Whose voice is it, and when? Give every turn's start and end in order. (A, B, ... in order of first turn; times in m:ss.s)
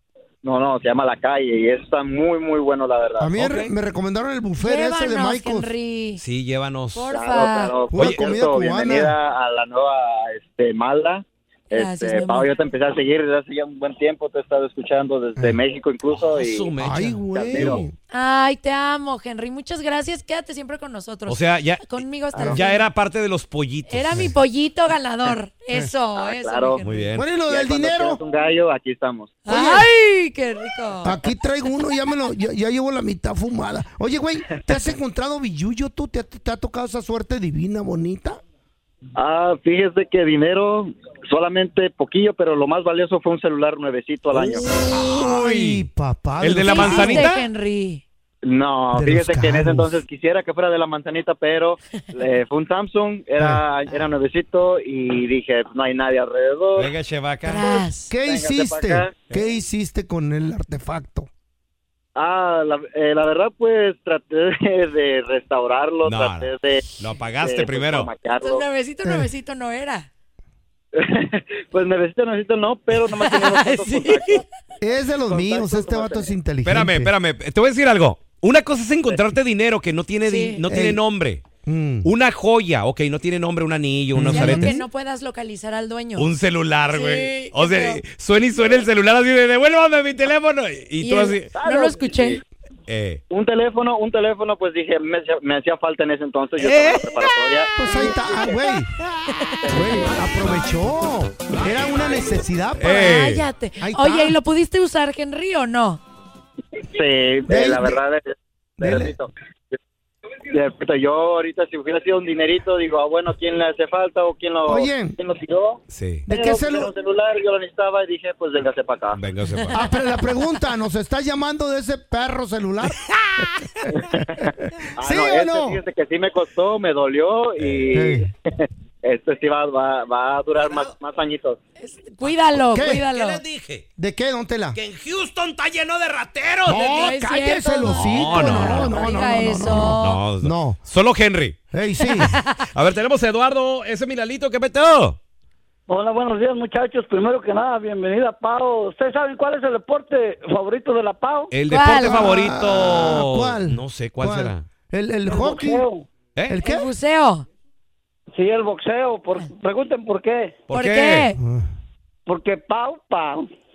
0:00.4-0:03.3 A
0:03.2-0:05.7 B
0:03.4-0:03.7 C
0:04.6-0:06.2 D
0:06.2-0:07.1 C
0:06.9-0:07.7 D
0:07.1-0:16.7 A
0:07.9-0:09.2 B
0:07.9-0:08.3 C
0:11.7-0:12.5 D
0:16.1-0:17.8 C
0:16.8-0:17.9 B
0:17.3-0:17.8 A
0:18.1-0:22.8 D
0:21.3-0:24.3 C
0:23.9-0:27.1 D
0:26.1-0:26.8 A
0:26.8-0:27.2 C
0:27.1-0:28.2 B
0:27.4-0:29.4 A
0:29.4-0:31.2 D
0:29.5-0:29.9 B
0:31.0-0:38.4 B
0:39.2-0:44.7 A
0:44.3-0:45.8 C
0:44.8-0:47.3 B
0:46.4-0:47.5 C
0:46.6-0:48.0 D
0:48.4-0:56.9 A
0:48.9-0:49.9 B
0:53.4-0:53.6 B
0:56.8-0:57.9 C
0:57.4-0:58.1 D
0:58.1-1:01.3 B
0:58.2-0:59.1 A
1:02.2-1:06.8 A
1:06.0-1:08.1 C
1:07.4-1:08.6 A
1:08.3-1:10.1 D
1:09.0-1:09.3 B
1:10.9-1:14.4 A
1:13.2-1:14.4 D
1:14.8-1:17.1 B
1:15.3-1:16.3 A
1:16.6-1:21.4 C
1:20.2-1:20.6 D
1:20.7-1:21.0 B
1:21.6-1:22.1 B
1:22.0-1:24.8 C
1:24.1-1:24.8 B
1:24.3-1:26.3 D
1:26.2-1:31.5 C
1:26.9-1:28.0 D
1:31.0-1:32.4 D
1:31.5-1:32.4 A
1:32.9-1:33.2 C
1:33.3-1:38.4 A
1:36.6-1:37.3 C
1:37.8-1:38.9 B
1:39.6-1:40.0 A
1:39.7-1:43.2 B
1:42.8-1:43.4 C
1:42.8-1:46.0 D
1:43.8-1:44.4 B
1:46.8-1:49.8 A
1:47.4-1:48.0 B
1:48.8-1:49.1 B
1:50.5-1:59.2 A
1:54.7-1:55.2 B
1:55.9-1:56.3 C
1:56.3-1:56.9 B
1:59.1-1:59.8 C
1:59.7-2:03.5 B
2:04.2-2:11.6 A
2:05.0-2:05.8 B
2:07.6-2:07.9 C
2:07.9-2:08.2 B
2:10.6-2:10.9 C
2:11.8-2:13.4 D
2:12.7-2:13.0 B
2:13.1-2:13.8 C
2:14.0-2:14.8 B
2:14.7-2:17.1 C
2:16.6-2:20.8 B
2:16.8-2:20.2 D
2:17.8-2:19.0 C
2:19.7-2:21.6 C
2:21.7-2:22.3 B
2:22.3-2:22.6 D
2:22.7-2:25.2 C
2:25.9-2:31.5 E
2:31.5-2:34.6 C
2:31.7-2:32.3 D
2:31.9-2:35.9 B
2:35.3-2:36.0 E
2:36.5-2:36.9 B
2:36.6-2:37.4 D
2:38.3-2:40.6 E
2:40.7-2:41.3 C
2:40.7-2:41.4 D
2:41.4-2:41.7 B
2:42.2-2:43.5 E